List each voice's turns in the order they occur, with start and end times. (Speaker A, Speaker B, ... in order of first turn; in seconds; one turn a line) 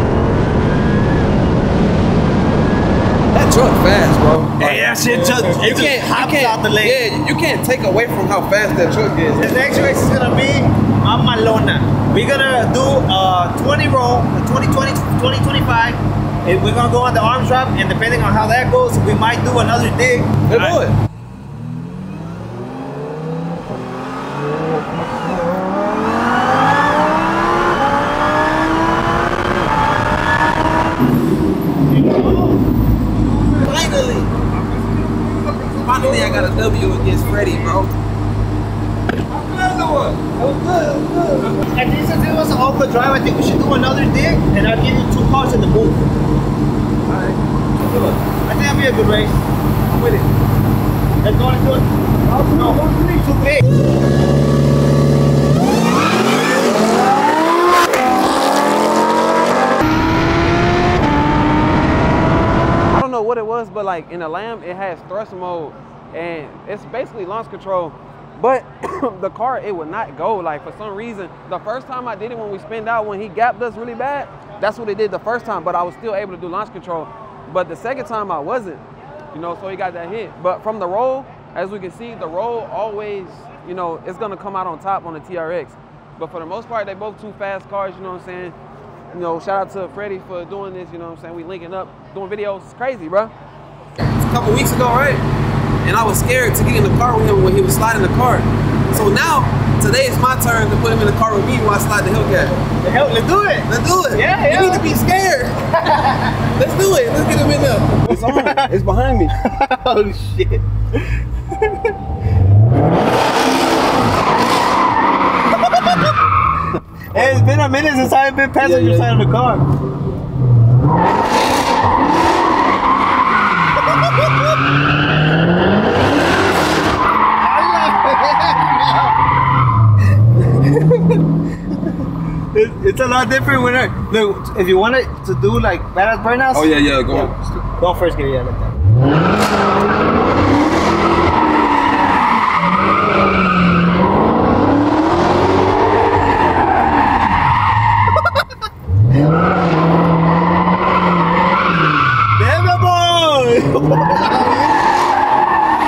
Speaker A: 3.3-9.6
Speaker B: 4.6-7.0
Speaker B: 9.3-20.8
Speaker A: 20.5-21.0
Speaker B: 32.0-32.6
Speaker A: 33.6-34.3
Speaker B: 33.6-36.5
Speaker A: 35.8-37.9
Speaker B: 39.3-46.1
Speaker A: 47.1-47.4
Speaker B: 47.8-49.4
Speaker A: 49.9-50.3
Speaker B: 51.2-53.7
Speaker A: 62.9-88.5
Speaker A: 89.1-93.3
Speaker A: 94.3-95.2
Speaker A: 95.8-102.6
Speaker B: 102.8-104.9
Speaker A: 103.7-105.5
Speaker B: 105.8-106.4
Speaker A: 106.6-109.3
Speaker B: 108.1-108.7
Speaker B: 109.4-110.7
Speaker B: 111.5-111.9
Speaker B: 117.1-119.6
Speaker A: 117.2-117.4
Speaker A: 118.6-119.1
Speaker B: 127.4-129.1
Speaker B: 130.4-131.0
Speaker B: 132.5-138.8
Speaker A: 136.5-137.3
Speaker B: 152.4-154.7